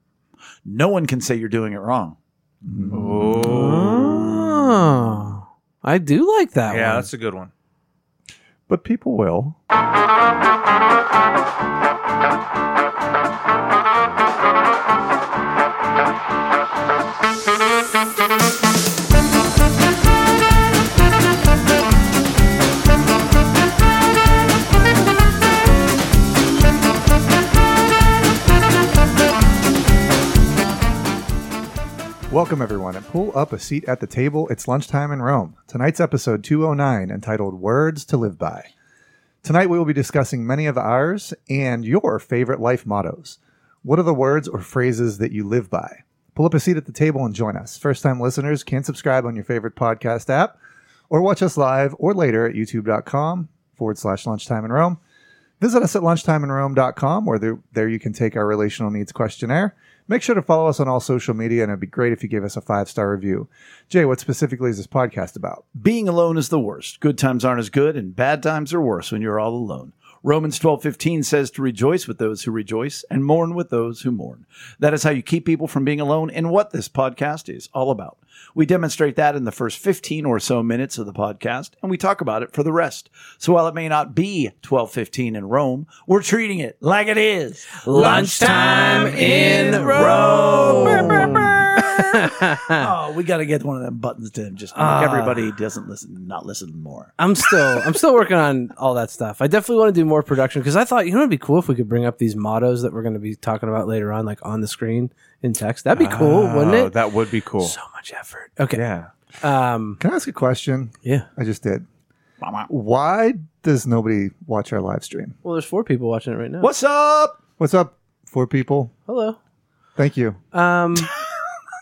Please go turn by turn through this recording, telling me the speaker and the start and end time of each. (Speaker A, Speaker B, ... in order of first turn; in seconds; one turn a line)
Speaker A: 0.7-2.2
Speaker B: 2.7-3.4
Speaker C: 2.9-4.5
Speaker D: 3.2-7.1
Speaker C: 6.7-7.5
Speaker B: 8.7-9.6
Speaker B: 32.3-38.7
Speaker B: 39.4-50.5
Speaker B: 51.1-55.0
Speaker B: 55.6-65.7
Speaker A: 65.8-92.0
Speaker D: 87.8-92.9
Speaker C: 88.8-89.5
Speaker C: 90.1-90.5
Speaker A: 92.7-97.9
Speaker D: 94.8-95.5
Speaker D: 97.2-107.0
Speaker C: 105.9-107.8
Speaker D: 107.6-108.8
Speaker C: 108.8-109.1
Speaker D: 109.4-110.0
Speaker B: 110.0-111.8
Speaker A: 112.4-112.7
Speaker B: 112.7-115.4
Speaker D: 115.4-116.7
Speaker A: 116.6-117.4
Speaker B: 117.6-118.9
Speaker D: 119.1-119.4
Speaker B: 120.0-120.4
Speaker D: 120.5-121.1